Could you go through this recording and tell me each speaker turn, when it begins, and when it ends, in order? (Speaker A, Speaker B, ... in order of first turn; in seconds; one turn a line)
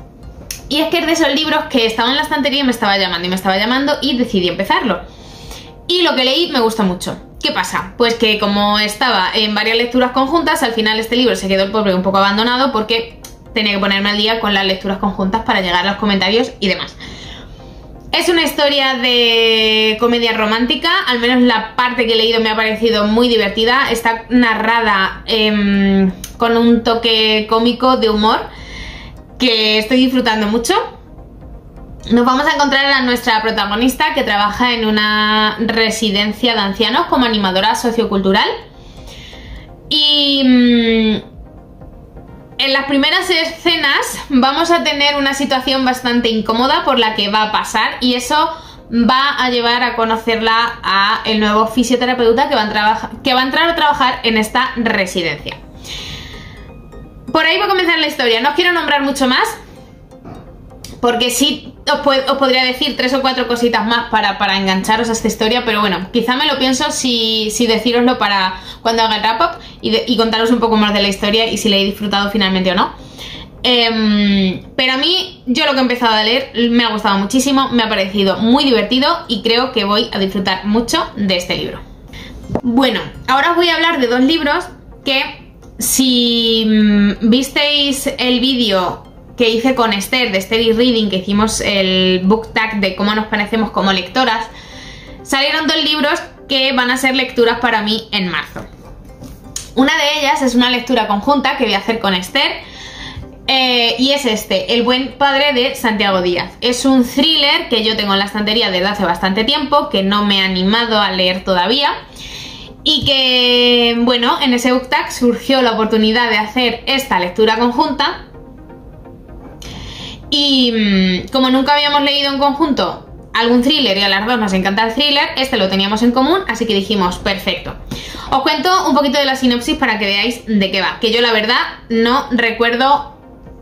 Speaker A: 0.7-5.0
Speaker A: 5.9-17.0
Speaker A: 18.1-28.4
Speaker A: 29.4-30.8
Speaker A: 32.1-38.5
Speaker A: 39.9-41.2
Speaker A: 42.6-55.6
Speaker A: 57.3-59.6
Speaker A: 61.0-72.9
Speaker A: 73.6-81.8
Speaker A: 82.6-94.5
Speaker A: 95.2-98.7
Speaker A: 99.8-102.6
Speaker A: 103.5-111.9
Speaker A: 112.8-118.2
Speaker A: 120.3-127.8
Speaker A: 128.3-133.1